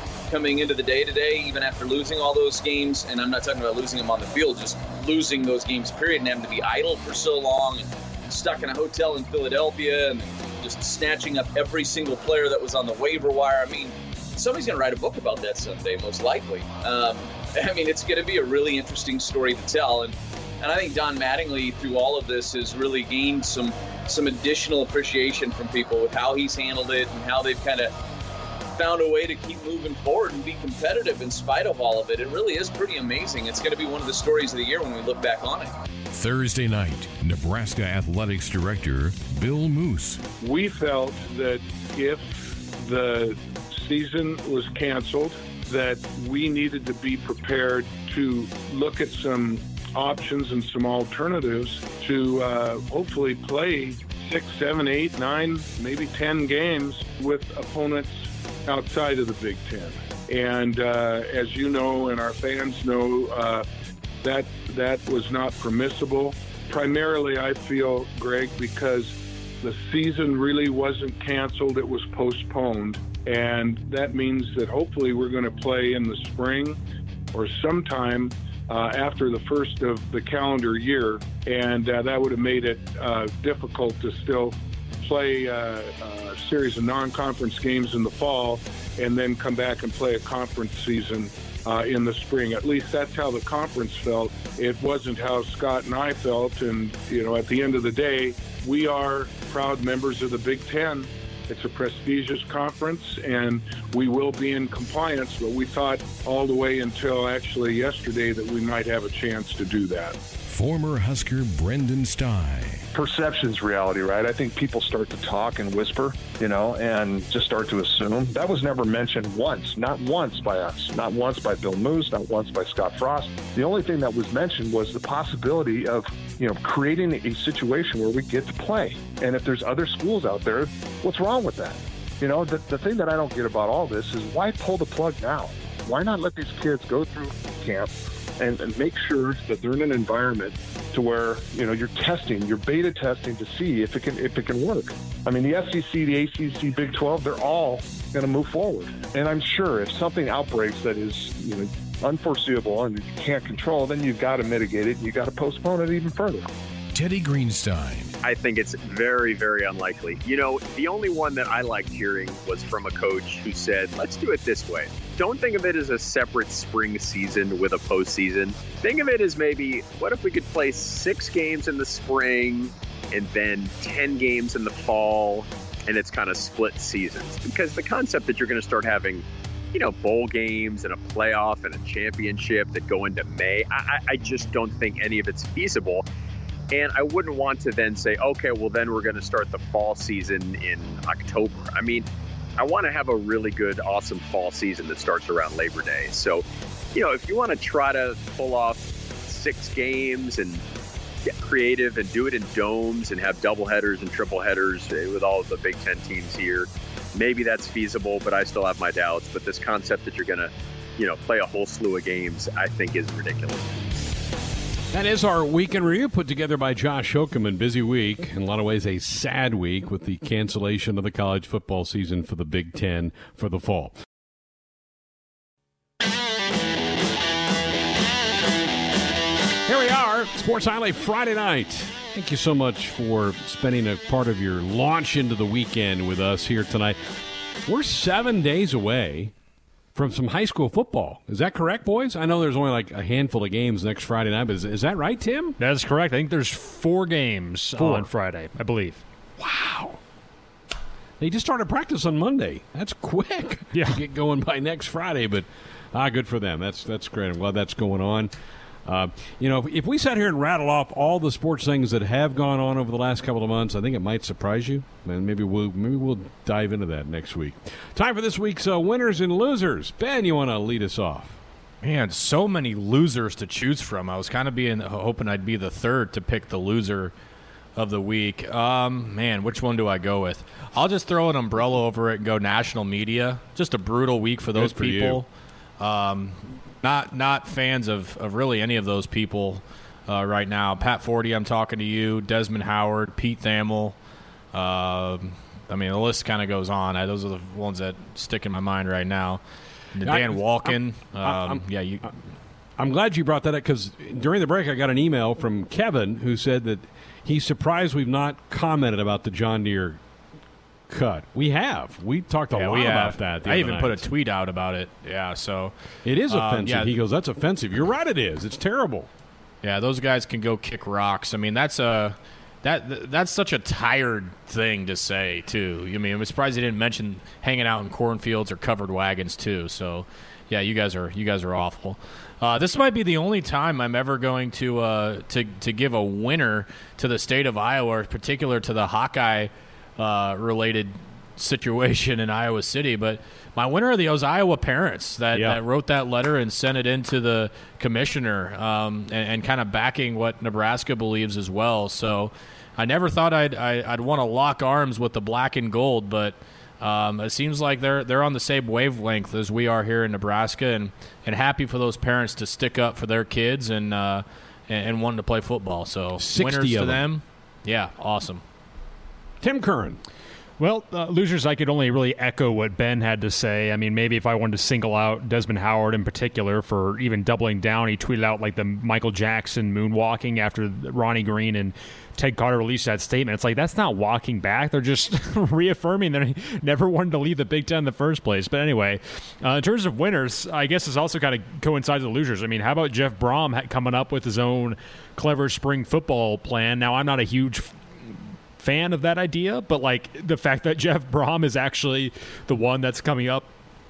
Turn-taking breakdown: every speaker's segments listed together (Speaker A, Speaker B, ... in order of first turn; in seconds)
Speaker A: 0.3-27.9, 28.7-35.8
Speaker B: 36.1-40.2, 110.5-112.9, 156.9-158.2
Speaker C: 40.4-63.7, 64.2-76.8, 77.3-110.2
Speaker D: 113.0-156.5
Speaker E: 158.2-186.1, 186.7-192.1, 192.6-200.6, 201.3-213.8
Speaker F: 214.9-224.0, 229.7-237.0, 237.6-239.3, 239.9-245.6, 247.8-248.1, 249.4-250.0, 251.2-258.3, 258.9-271.4, 284.5-285.2, 300.0-302.1, 302.8-310.0, 310.9-314.1, 316.1-319.1, 345.3-345.6, 366.2-367.1, 369.4-370.0
Speaker G: 245.6-249.0, 253.7-254.0, 370.6-397.7, 398.6-403.5
Speaker H: 271.8-277.1, 277.8-285.3, 285.8-294.0, 294.5-299.4, 299.9-302.1, 312.5-315.7, 316.3-316.9, 319.6-368.4